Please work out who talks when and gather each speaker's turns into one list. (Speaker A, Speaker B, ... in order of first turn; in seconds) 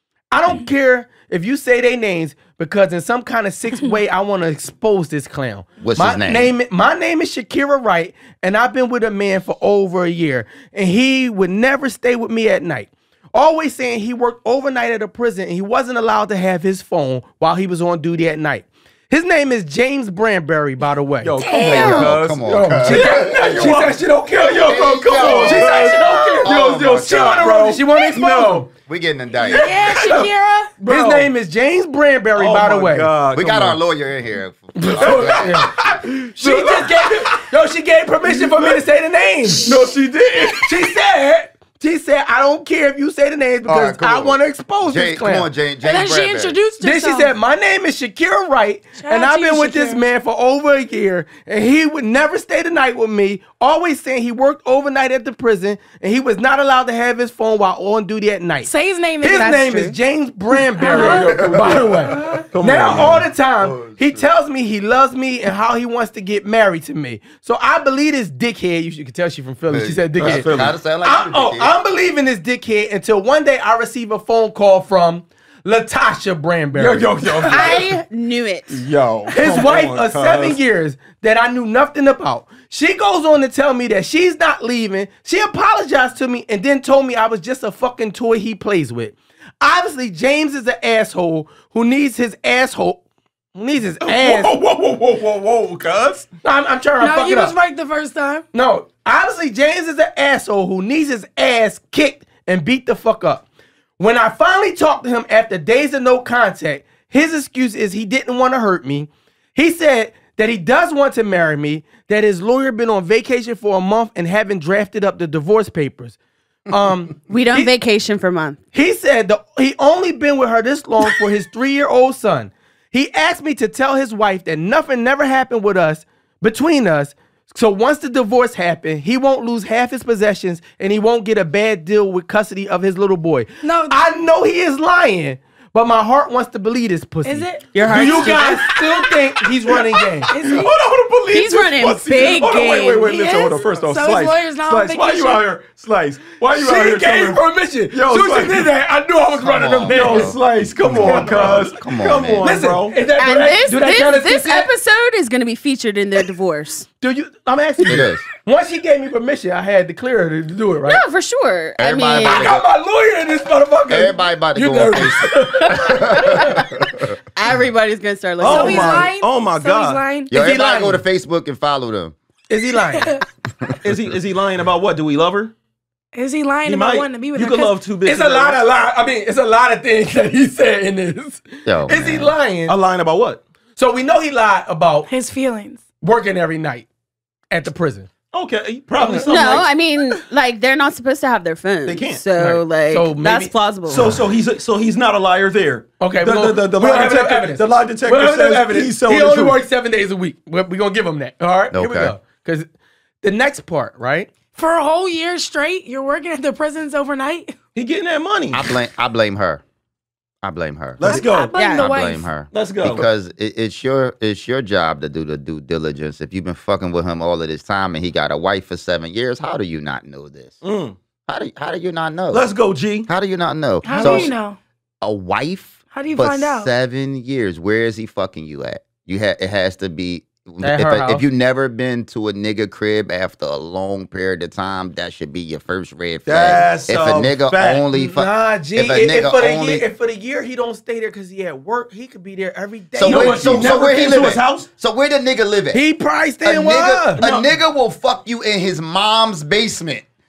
Speaker A: 0.3-21.4, 22.5-28.7, 30.9-33.1, 34.8-39.8, 40.5-45.5, 46.8-77.1, 79.3-93.0, 93.5-94.6, 96.4-97.5, 98.5-103.5, 104.0-116.2, 116.7-117.7, 118.7-140.3, 146.5-150.4, 151.0-151.7, 152.4-154.7, 157.0-161.0, 162.2-166.6, 170.3-171.0, 172.5-173.2, 178.1-182.8, 183.8-185.1, 186.0-186.9, 187.5-188.1, 189.0-189.6, 192.4-193.5, 196.0-202.7, 203.2-204.3, 230.6-231.3, 237.9-243.7, 245.7-247.2
Speaker B: 5.8-6.5, 21.5-24.0, 24.6-27.5, 28.8-29.8, 33.3-35.7, 43.7-46.6, 61.3-61.8, 62.8-64.3, 69.7-71.7, 149.4-152.5, 157.9-158.2, 161.8-162.6, 163.9-167.2, 170.3-172.2, 173.7-173.9, 181.7-182.3, 201.7-202.2, 208.5-209.6, 210.4-220.6, 221.3-222.5, 223.1-224.3, 225.0-239.8, 242.9-245.8, 246.4-250.1
Speaker C: 21.2-28.6, 29.5-31.3, 32.4-33.8, 35.0-35.7, 36.4-37.4, 38.3-38.9, 39.4-40.8, 60.9-61.7, 62.5-63.3, 70.2-70.8, 76.8-77.9, 78.7-80.6, 94.0-96.3, 137.8-138.4, 140.2-148.7, 149.9-153.0, 168.4-170.0, 173.8-175.5, 176.7-178.6, 182.7-183.4, 188.3-189.7, 191.9-192.2, 193.9-199.6, 207.8-208.7, 211.0-211.6, 212.5-213.1, 220.6-221.0, 222.3-223.1, 223.9-224.3, 236.2-237.8, 243.1-244.7, 247.2-247.5
Speaker D: 21.4-22.1, 29.5-30.7, 45.8-47.3, 49.0-50.0, 58.6-59.9, 60.8-61.5, 62.1-62.5, 97.0-98.5, 133.6-134.0, 137.2-138.4, 140.3-140.8, 143.0-145.5, 168.4-170.3, 176.1-177.8, 185.1-185.8, 204.6-207.6, 211.0-212.3, 223.8-224.6, 225.9-226.7
Speaker E: 21.8-22.1, 59.4-60.0, 77.5-78.8, 117.3-118.6, 137.7-138.7, 141.3-143.1, 153.2-156.9, 160.8-162.6, 167.3-169.1, 189.2-194.1, 211.5-211.9